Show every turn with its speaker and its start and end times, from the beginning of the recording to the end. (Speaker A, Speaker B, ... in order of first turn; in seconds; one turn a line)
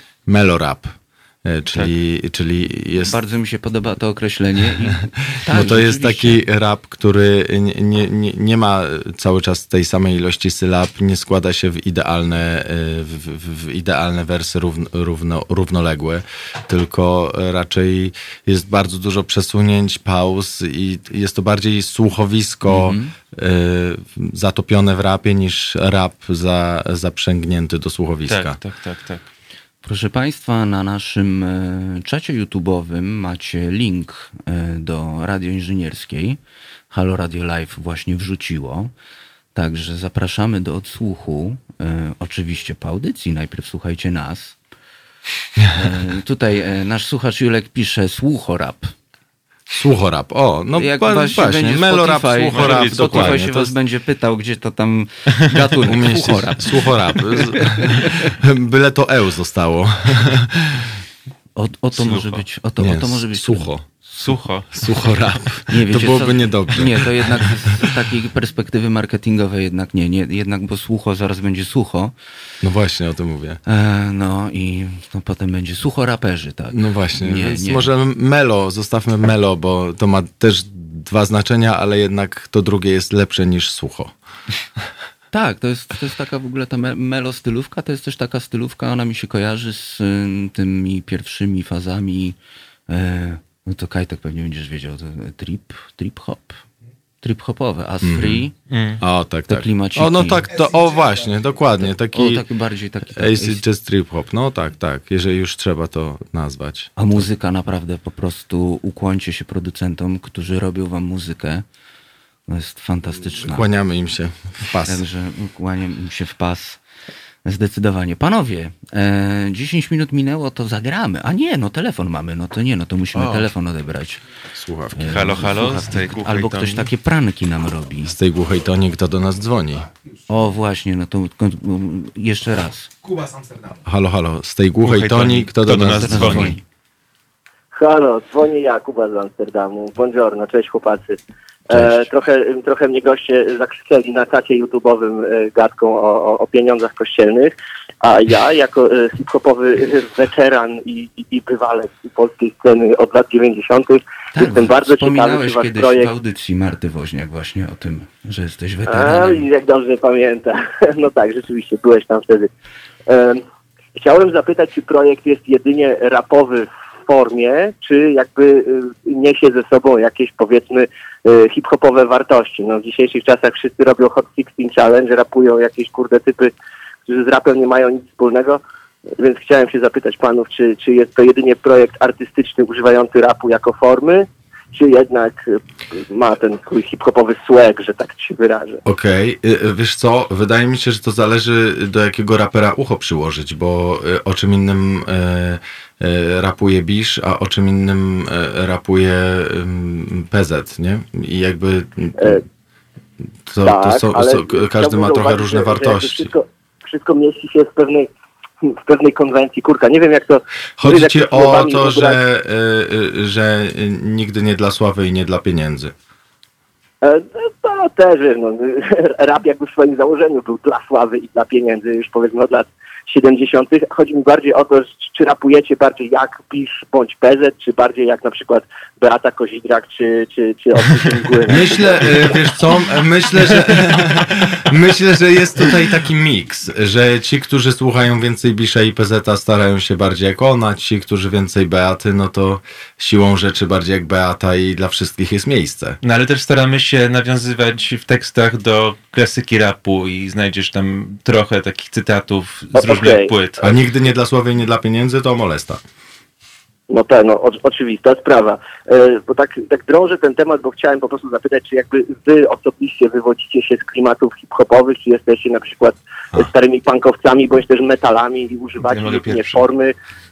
Speaker A: 0.3-3.2
Speaker B: 3.0-6.4
Speaker A: 5.5-28.6
Speaker B: 22.6-23.1
Speaker C: 28.3-29.2
Speaker B: 29.8-36.4
Speaker B: 36.9-38.9
Speaker B: 39.5-44.6
Speaker A: 45.6-45.9
Speaker B: 45.7-48.9
Speaker A: 49.7-53.8
Speaker B: 50.8-58.1
Speaker C: 52.5-53.5
Speaker A: 55.9-60.9
Speaker B: 61.6-63.7
Speaker C: 62.0-62.4
Speaker A: 62.8-67.9
Speaker C: 64.1-65.4
Speaker B: 65.7-72.1
Speaker A: 72.6-73.6
Speaker B: 73.7-77.9
Speaker A: 76.7-84.1
Speaker B: 85.3-92.4
Speaker B: 92.9-96.6
Speaker B: 97.2-98.5
Speaker A: 98.0-102.5
Speaker C: 98.7-99.0
Speaker B: 99.5-100.5
Speaker B: 101.8-103.6
Speaker A: 103.2-107.3
Speaker B: 107.0-111.7
Speaker B: 112.5-113.7
Speaker A: 113.2-115.0
Speaker B: 114.8-116.8
Speaker B: 117.5-124.2
Speaker A: 123.2-123.5
Speaker A: 124.5-125.6
Speaker B: 125.0-128.2
Speaker C: 125.0-126.9
Speaker A: 128.1-129.9
Speaker B: 130.3-132.9
Speaker A: 133.7-136.6
Speaker C: 134.8-136.6
Speaker B: 135.9-136.6
Speaker D: 137.7-156.1
Speaker A: 141.7-142.1
Speaker B: 154.4-159.5
Speaker D: 158.9-162.5
Speaker D: 163.1-163.4
Speaker D: 164.0-176.5
Speaker D: 177.1-178.6
Speaker D: 179.2-188.8
Speaker A: 188.8-202.4
Speaker A: 203.5-206.3
Speaker D: 203.6-208.1
Speaker D: 208.6-212.2
Speaker A: 210.8-215.9
Speaker D: 217.0-232.6
Speaker A: 231.5-246.0
Speaker C: 246.0-253.7
Speaker D: 252.8-253.3
Speaker A: 253.6-255.8
Speaker D: 256.9-269.9
Speaker C: 268.8-269.7